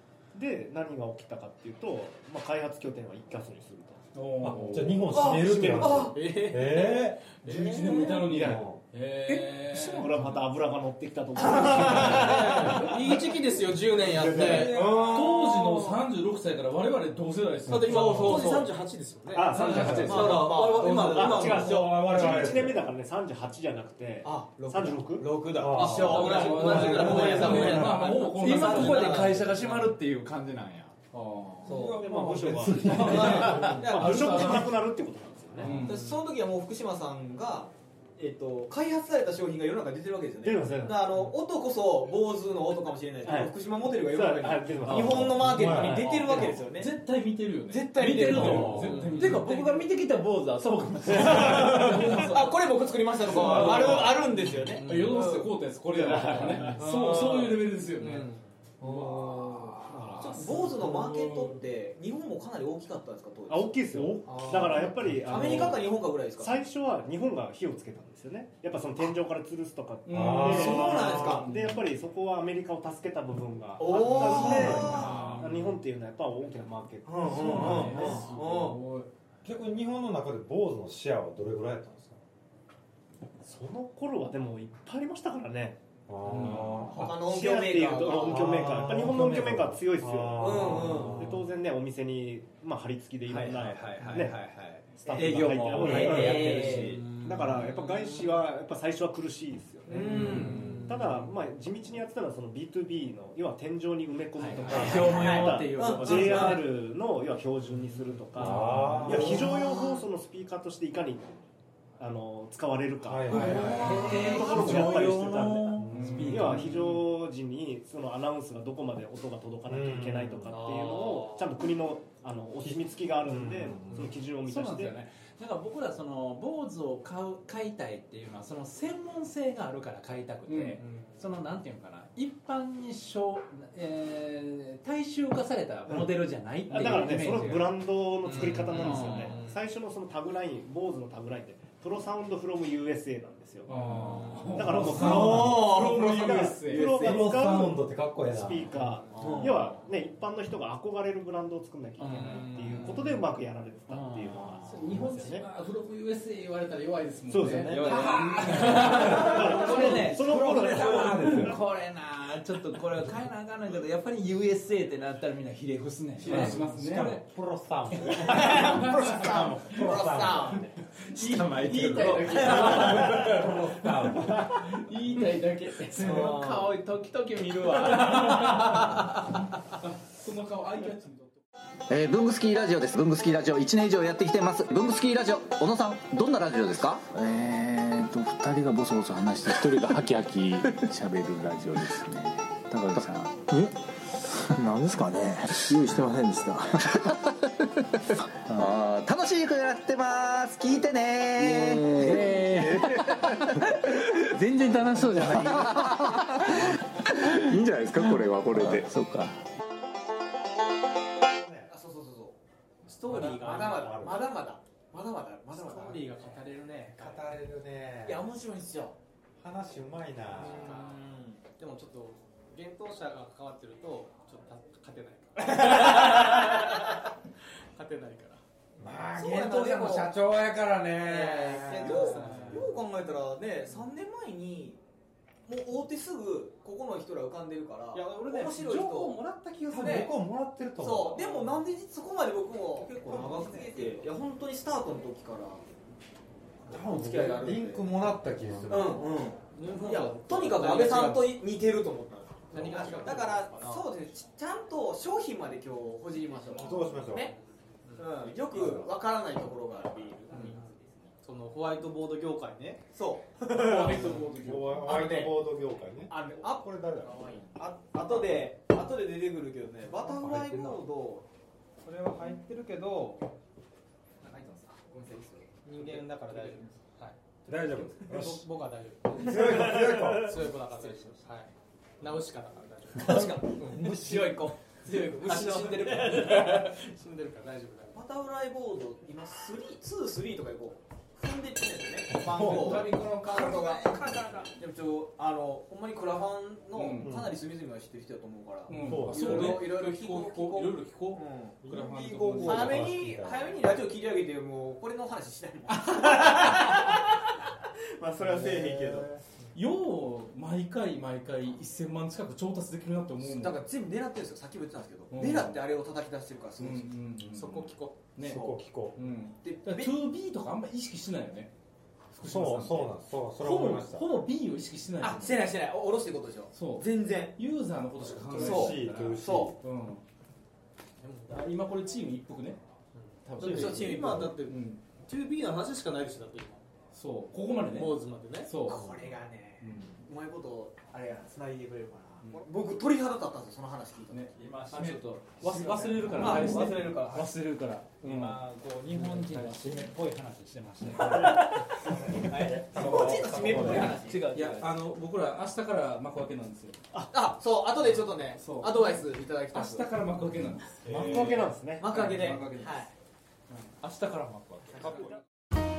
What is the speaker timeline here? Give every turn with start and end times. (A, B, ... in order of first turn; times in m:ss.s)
0:00.3-0:04.0 A
0:04.1-0:05.2 B
0:04.4-0:08.8 C
0:05.1-0:06.2 D
0:05.1-0:06.2 A
0:06.1-0:07.8 E
0:07.4-0:10.4 B
0:07.8-0:08.2 D
0:07.9-0:08.7 A
0:09.2-0:13.2 A
0:11.6-0:14.9 E
0:11.8-0:12.9 B
0:14.0-0:15.0 A
0:14.1-0:15.6 C
0:14.3-0:15.7 D
0:14.9-0:18.7 B
0:17.7-0:21.6 E
0:17.7-0:18.1 C
0:17.9-0:18.7 D
0:19.3-0:25.5 A
0:19.5-0:20.4 B
0:19.6-0:20.3 C
0:19.9-0:22.5 D
0:21.5-0:22.9 C
0:24.2-0:29.9 D
0:25.5-0:27.9 C
0:25.7-0:29.5 B
0:26.2-0:26.8 E
0:26.4-0:30.9 F
0:31.1-0:31.9 B
0:31.6-0:32.1 D
0:31.6-0:33.8 C
0:31.7-0:35.8 A
0:32.6-0:34.5 F
0:32.9-0:34.7 D
0:32.9-0:34.8 B
0:35.6-0:36.1 B
0:35.7-0:46.9 D
0:40.4-0:41.2 A
0:43.2-0:46.6 A
0:44.9-0:46.1 C
0:46.1-0:49.7 B
0:47.7-0:49.4 D
0:47.9-0:52.4 F
0:48.3-0:49.0 C
0:51.1-0:58.2 D
0:51.1-0:52.5 B
0:53.2-0:54.2 B
0:53.5-0:54.7 E
0:54.8-0:58.3 B
0:58.0-0:58.4 E
0:58.8-1:01.6 B
0:58.8-1:06.6 D
0:59.9-1:00.6 A
1:03.5-1:18.3 A
1:10.0-1:11.8 B
1:10.1-1:11.4 C
1:10.4-1:11.5 D
1:13.8-1:15.3 D
1:14.0-1:15.5 F
1:14.3-1:15.8 B
1:17.0-1:18.8 D
1:17.3-1:19.1 B
1:19.4-1:22.2 C
1:23.4-1:25.8 A
1:26.1-1:27.2 C
1:26.2-1:26.9 B
1:26.9-1:28.9 D
1:27.1-1:34.4 A
1:28.2-1:31.5 C
1:30.4-1:31.3 D
1:33.3-1:37.1 F
1:34.9-1:51.4 A
1:35.1-1:38.1 D
1:35.2-1:36.8 C
1:39.9-1:40.8 D
1:40.0-1:40.7 F
1:40.2-1:40.9 C
1:40.2-1:40.6 B
1:44.4-1:46.7 F
1:44.7-1:45.4 C
1:44.7-1:46.6 D
1:48.4-1:49.6 C
1:48.4-1:49.4 F
1:49.5-1:50.0 D
1:52.0-2:05.0 A
1:53.0-1:55.1 C
1:53.3-1:57.0 F
1:53.6-1:54.4 D
1:55.8-1:56.5 C
1:55.9-1:57.0 B
1:59.7-2:00.6 C
2:00.5-2:01.5 D
2:02.6-2:04.1 C
2:04.4-2:17.7 F
2:10.5-2:10.8 B
2:10.8-2:11.2 E
2:15.9-2:16.2 A
2:16.7-2:23.7 A
2:18.3-2:19.3 F
2:18.3-2:19.1 B
2:18.4-2:19.6 E
2:23.7-2:27.2 B
2:24.5-2:35.4 A
2:24.9-2:25.8 C
2:25.0-2:26.4 D
2:26.8-2:28.8 C
2:29.2-2:29.7 D
2:32.0-2:32.4 B
2:33.9-2:35.0 F
2:34.6-2:40.0 B
2:37.3-2:41.6 A
2:37.5-2:47.2 F
2:37.7-2:39.2 E
2:38.0-2:38.8 D
2:38.5-2:41.6 C
2:46.2-2:47.2 B
2:46.2-2:50.6 C
2:48.2-2:50.7 D
2:48.5-2:48.9 B
2:51.1-2:59.0 F
2:51.1-2:56.4 B
2:52.3-2:52.8 D
2:52.6-2:53.2 C
2:56.0-2:56.6 D
2:57.8-2:59.2 B
2:59.8-3:01.4 B
3:01.9-3:13.8 G
3:14.4-3:17.4 G
3:18.1-3:23.7 G
3:21.8-3:26.8 F
3:22.3-3:23.4 C
3:24.8-3:25.7 C
3:25.0-3:29.4 G
3:28.0-3:28.9 C
3:31.6-3:36.4 D
3:33.0-3:34.3 C
3:35.5-3:37.2 E
3:35.6-3:36.2 C
3:37.0-3:38.3 C
3:38.0-3:39.0 D
3:39.4-3:40.8 C
3:40.4-3:41.5 D
3:40.4-3:47.0 E
3:45.4-3:46.8 D
3:47.7-3:48.4 E
3:48.8-3:52.7 C
3:49.1-3:50.2 D
3:50.9-3:54.8 D
3:51.4-3:52.8 E
3:55.4-4:00.1 D
3:57.9-3:58.6 E
3:58.4-4:01.6 C
3:59.8-4:00.0 E
4:00.8-4:05.6 D
4:01.1-4:01.6 E
4:02.8-4:04.0 E
4:06.7-4:07.9 D
4:06.7-4:09.2 C
4:08.7-4:17.3 D
4:09.5-4:11.4 E
4:10.4-4:11.2 B
4:12.5-4:13.9 E
4:12.6-4:13.4 B
4:16.5-4:17.3 C
4:16.8-4:18.8 E
4:18.0-4:20.7 D
4:18.5-4:18.9 C
4:20.3-4:20.7 E
4:21.2-4:22.9 E
4:22.9-4:24.2 D
4:23.5-4:25.0 B
4:24.4-4:27.5 C
4:24.8-4:25.4 D
4:26.1-4:31.2 D
4:30.0-4:30.8 C
4:31.8-4:33.3 E
4:34.2-4:36.5 D
4:35.6-4:48.0 E
4:37.4-4:38.5 C
4:39.2-4:40.4 C
4:39.3-4:40.1 D
4:43.0-4:46.7 D
4:43.0-4:44.2 C
4:47.9-5:07.3 D
4:52.2-4:52.9 C
4:52.3-4:53.6 B
4:52.3-4:54.6 E
4:56.7-4:57.2 B
4:57.0-4:57.3 C
4:58.7-5:03.0 B
4:58.7-4:59.7 C
5:02.3-5:03.8 C
5:06.0-5:06.5 B
5:06.2-5:06.5 E
5:08.0-5:09.1 D
5:08.2-5:09.2 C
5:09.5-5:13.6 B
5:13.2-5:16.9 D
5:15.1-5:15.7 B
5:16.6-5:21.5 B
5:17.3-5:18.1 E
5:18.2-5:18.6 D
5:18.2-5:19.0 C
5:19.4-5:19.9 D
5:22.1-5:25.6 B
5:22.2-5:24.1 C
5:25.0-5:27.4 D
5:26.5-5:30.0 B
5:28.0-5:29.6 C
5:28.3-5:29.5 D
5:31.0-5:31.4 E
5:31.0-5:32.6 B
5:33.0-5:36.6 E
5:33.2-5:34.8 B
5:33.4-5:34.3 C
5:33.4-5:34.3 D
5:36.9-5:40.0 B
5:37.6-5:38.5 E
5:38.6-5:45.0 D
5:44.1-5:48.4 B
5:44.4-5:47.2 F
5:45.5-5:47.3 D
5:46.5-5:46.9 E
5:48.0-5:51.6 F
5:51.0-5:54.6 D
5:51.2-5:51.5 E
5:52.0-5:54.0 C
5:53.2-5:56.8 B
5:53.5-5:54.5 F
5:57.0-5:59.9 D
5:58.4-6:02.8 B
6:00.8-6:02.1 A
6:01.8-6:02.9 D
6:03.5-6:05.2 B